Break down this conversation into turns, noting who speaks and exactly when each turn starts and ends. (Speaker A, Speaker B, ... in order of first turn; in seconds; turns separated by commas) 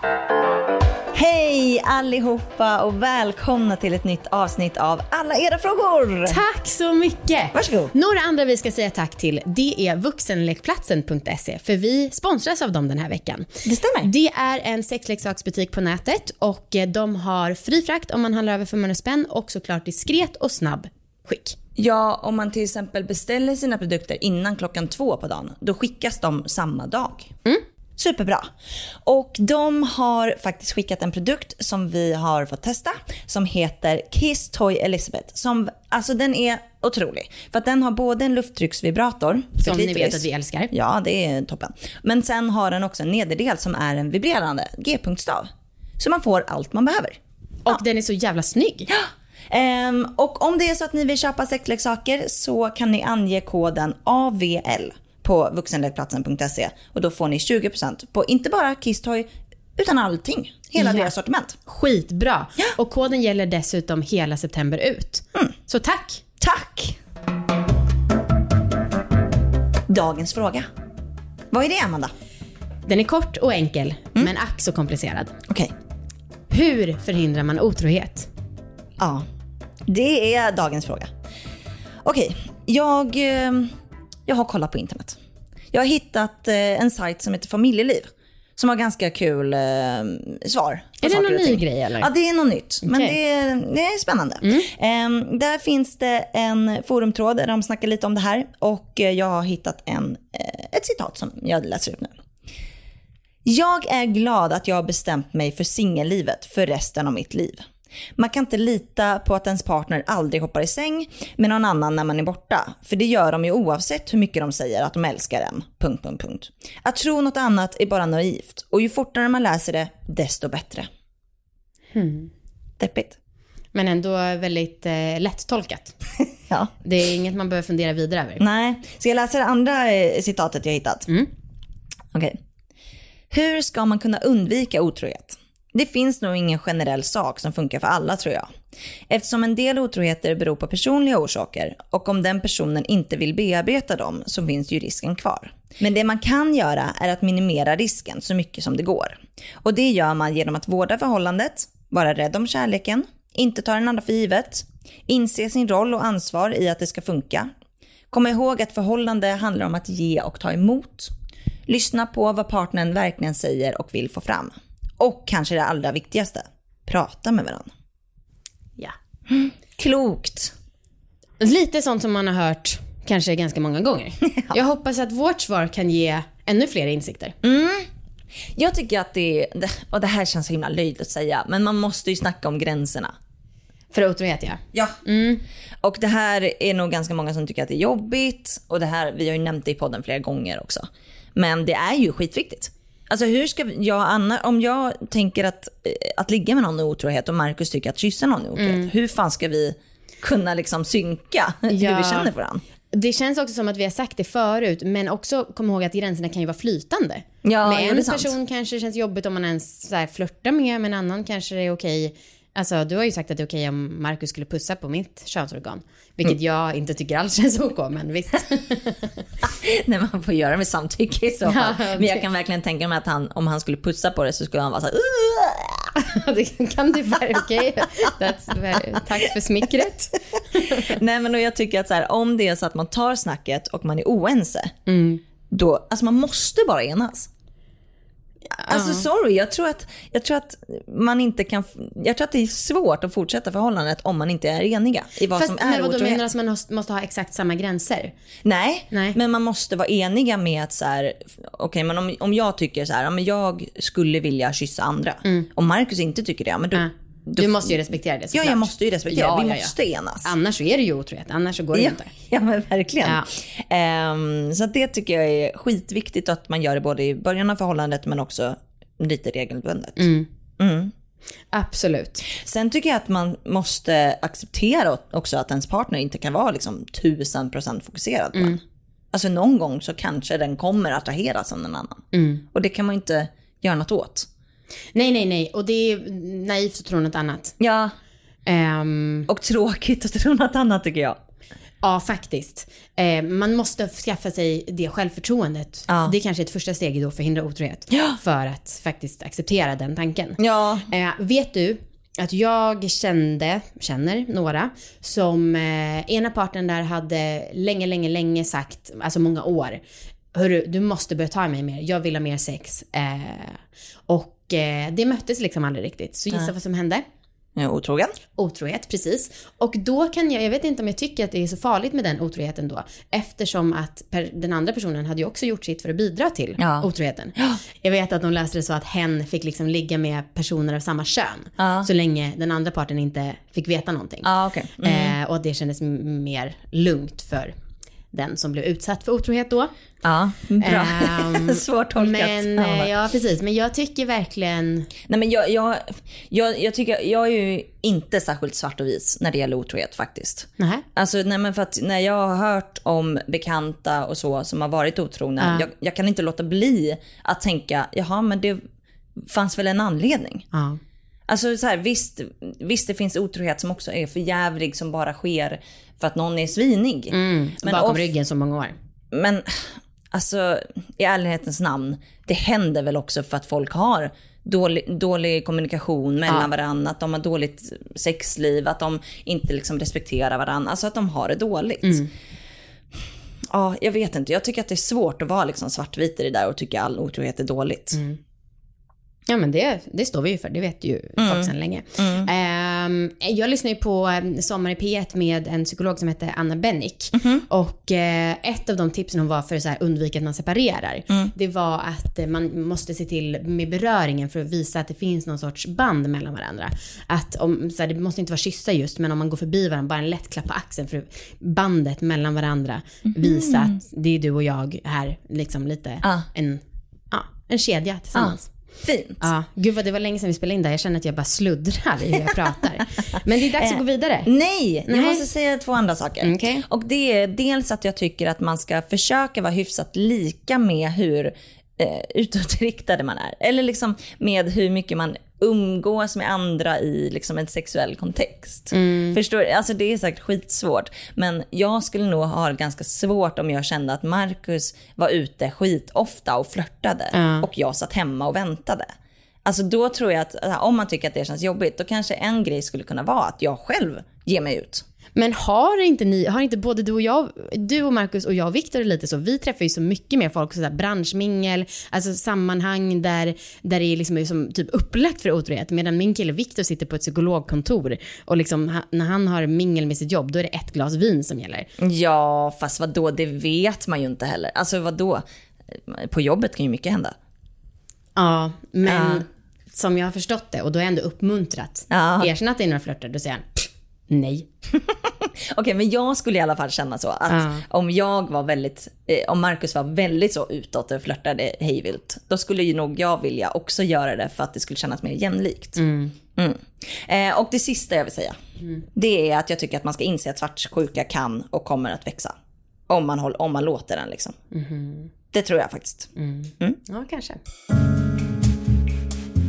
Speaker A: 1.1-6.4, Speaker B: 6.3-13.5, Speaker A: 7.5-7.9, Speaker A: 13.6-14.1, Speaker B: 14.0-21.6, Speaker A: 21.8-27.3, Speaker A: 28.0-28.5, Speaker A: 29.0-45.5, Speaker B: 39.6-40.7, Speaker A: 46.0-47.2, Speaker B: 47.6-48.9, Speaker A: 48.9-61.6, Speaker B: 60.8-61.1, Speaker B: 61.7-66.2, Speaker A: 66.4-67.0, Speaker A: 69.9-70.7, Speaker A: 71.5-72.1, Speaker B: 72.9-75.3, Speaker B: 76.5-78.3, Speaker A: 79.9-81.1, Speaker A: 82.0-83.7, Speaker A: 84.3-85.2, Speaker A: 85.7-102.1, Speaker B: 91.0-92.1, Speaker B: 92.8-93.2, Speaker B: 94.4-94.7, Speaker A: 103.4-107.6, Speaker A: 108.2-120.9, Speaker B: 121.9-122.3, Speaker A: 122.8-123.2, Speaker B: 123.7-126.0, Speaker B: 126.8-128.4, Speaker A: 128.4-131.1, Speaker A: 133.3-138.5, Speaker A: 139.1-157.5, Speaker A: 158.1-161.1, Speaker A: 161.7-167.7, Speaker A: 169.3-170.5, Speaker B: 171.4-177.4, Speaker A: 174.3-174.6, Speaker A: 177.4-177.9, Speaker A: 178.6-183.1, Speaker B: 183.9-185.4, Speaker A: 185.8-202.6, Speaker B: 198.6-198.9, Speaker B: 201.7-202.3, Speaker B: 202.9-219.2, Speaker A: 207.4-208.3, Speaker A: 219.4-225.9, Speaker B: 221.4-222.2, Speaker B: 226.0-231.0, Speaker A: 230.8-234.7, Speaker B: 234.9-235.2, Speaker A: 235.5-237.3, Speaker B: 238.6-239.1, Speaker A: 238.7-246.2, Speaker B: 245.3-248.1, Speaker A: 248.4-257.7, Speaker B: 248.9-249.2, Speaker B: 256.8-262.1, Speaker A: 258.3-260.3, Speaker A: 261.7-270.1, Speaker B: 270.0-270.3, Speaker A: 270.6-270.9, Speaker B: 271.5-272.3, Speaker A: 272.3-278.6, Speaker B: 278.3-278.6, Speaker A: 279.1-282.0, Speaker B: 282.1-282.4, Speaker A: 282.5-284.3, Speaker B: 284.9-287.6, Speaker A: 287.6-287.9, Speaker B: 288.4-289.3, Speaker A: 289.3-291.2, Speaker B: 291.8-309.8, Speaker A: 295.9-296.1, Speaker A: 297.9-298.2, Speaker A: 300.4-300.9, Speaker B: 310.3-317.0, Speaker A: 317.6-318.1, Speaker B: 318.4-334.3, Speaker A: 326.6-327.6, Speaker A: 331.6-331.9, Speaker A: 334.2-335.1, Speaker B: 334.8-337.5, Speaker B: 338.1-339.7, Speaker A: 340.0-342.9, Speaker B: 340.6-344.9, Speaker A: 345.1-358.6, Speaker B: 350.6-350.9, Speaker B: 355.4-355.7, Speaker A: 359.2-360.4, Speaker B: 360.5-360.8, Speaker A: 361.3-368.1, Speaker B: 367.1-368.8, Speaker A: 369.1-382.0, Speaker B: 381.8-382.1, Speaker A: 383.5-388.0, Speaker B: 387.9-388.2, Speaker B: 389.3-418.5, Speaker A: 391.2-392.3, Speaker A: 397.2-397.4, Speaker A: 413.2-413.7, Speaker A: 418.1-419.2, Speaker B: 419.2-424.3, Speaker A: 423.6-448.9, Speaker B: 424.9-425.2, Speaker B: 426.2-426.6, Speaker B: 438.7-439.2, Speaker B: 447.1-447.5, Speaker A: 449.4-454.8, Speaker B: 455.2-471.7, Speaker A: 471.8-475.2, Speaker A: 475.9-477.1, Speaker B: 478.2-484.5, Speaker A: 478.9-479.2, Speaker A: 481.9-482.3, Speaker A: 484.9-495.8, Speaker B: 487.3-487.6, Speaker B: 495.8-496.2, Speaker A: 496.4-498.4, Speaker A: 498.9-502.4, Speaker A: 502.9-504.4, Speaker B: 504.5-505.1, Speaker A: 505.3-506.1, Speaker B: 506.2-507.4